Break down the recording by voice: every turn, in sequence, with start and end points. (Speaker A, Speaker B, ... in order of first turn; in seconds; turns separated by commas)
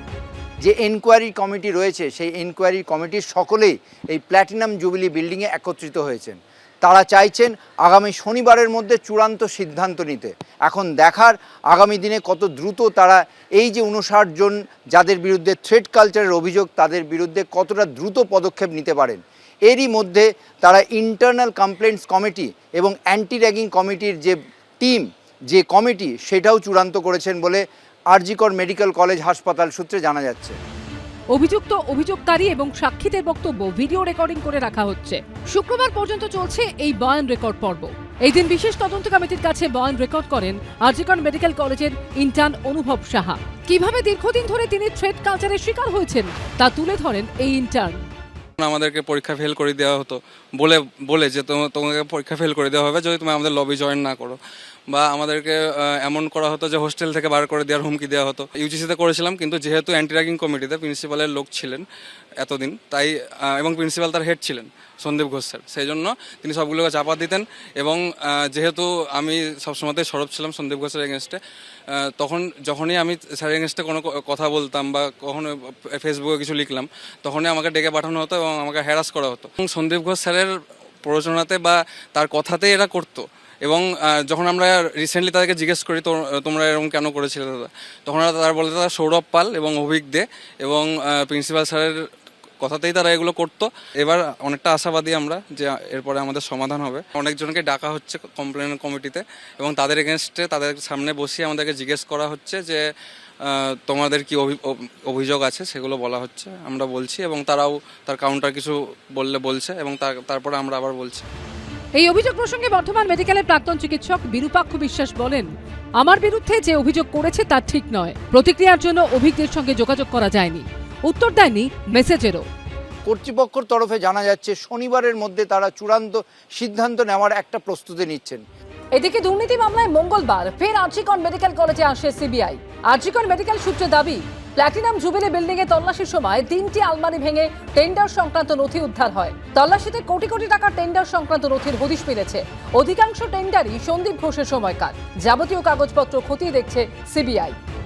Speaker A: 0.6-30.6, Speaker B: 31.3-48.0, Speaker C: 48.6-54.4, Speaker C: 54.9-61.8, Speaker C: 62.4-71.4, Speaker C: 71.9-80.5, Speaker C: 81.0-92.0, Speaker C: 92.6-102.8, Speaker C: 103.4-111.3, Speaker B: 112.0-122.5, Speaker A: 123.1-128.4, Speaker B: 128.9-147.6